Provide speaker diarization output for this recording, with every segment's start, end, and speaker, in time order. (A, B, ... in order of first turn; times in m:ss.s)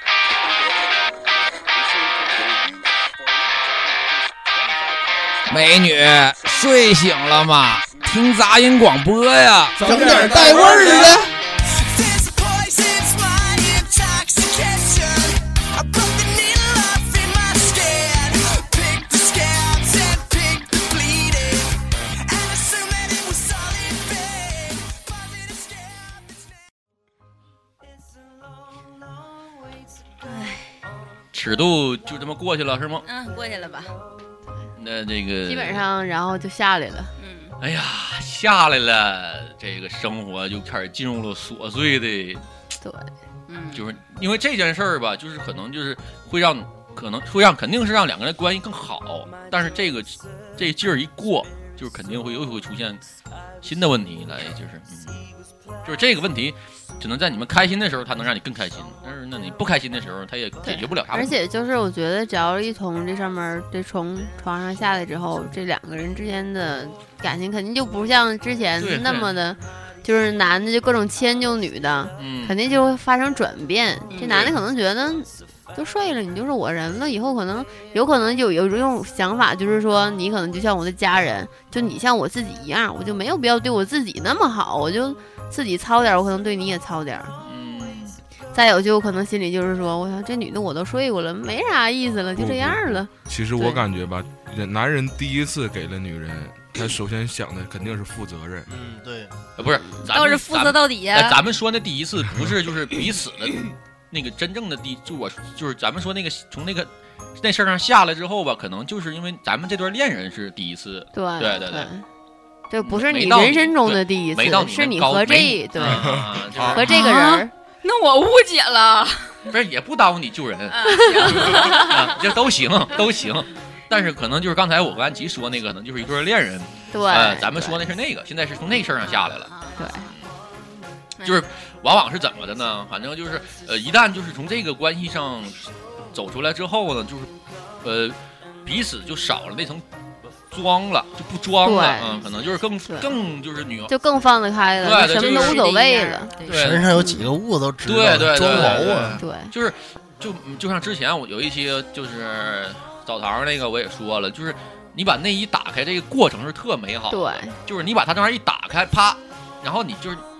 0:00.4-0:01.1 A
0:01.7-0:05.5 A
0:05.5-0:11.3 B
0:09.8-0:11.2 C
0:09.9-0:26.5 A
0:30.2-0:30.7 D
0:31.3-0:33.1 E
0:33.0-0:34.0 D
0:34.8-0:35.8 E
0:35.5-0:37.1 F
0:37.2-0:37.5 D
0:37.6-0:42.4 E
0:42.8-0:43.1 F
0:43.5-0:43.9 D
0:43.7-0:53.0 E
0:53.6-0:55.3 E
0:55.8-1:01.4 E
1:00.6-1:27.3 F
1:08.8-1:09.3 E
1:12.2-1:12.6 E
1:14.1-1:14.4 D
1:14.2-1:14.6 E
1:27.4-1:28.2 E
1:28.5-1:33.8 F
1:32.4-1:38.7 G
1:38.7-1:39.3 C
1:39.6-1:51.9 E
1:40.1-1:41.4 D
1:51.2-1:52.0 F
1:52.7-1:56.2 F
1:52.9-1:57.0 E
1:55.8-1:56.8 G
1:56.7-1:57.5 F
1:56.9-1:59.5 D
1:59.5-2:09.5 E
2:00.7-2:02.2 D
2:06.9-2:07.9 F
2:09.0-2:10.1 D
2:09.8-2:10.1 F
2:11.2-2:17.3 E
2:17.8-2:19.8 E
2:20.5-2:23.9 E
2:21.6-2:22.2 F
2:23.9-2:26.3 F
2:24.8-2:25.6 E
2:25.1-2:26.7 D
2:26.4-2:26.9 E
2:26.5-2:29.2 C
2:27.0-2:27.3 F
2:27.8-2:40.2 E
2:29.2-2:29.5 F
2:37.1-2:37.6 F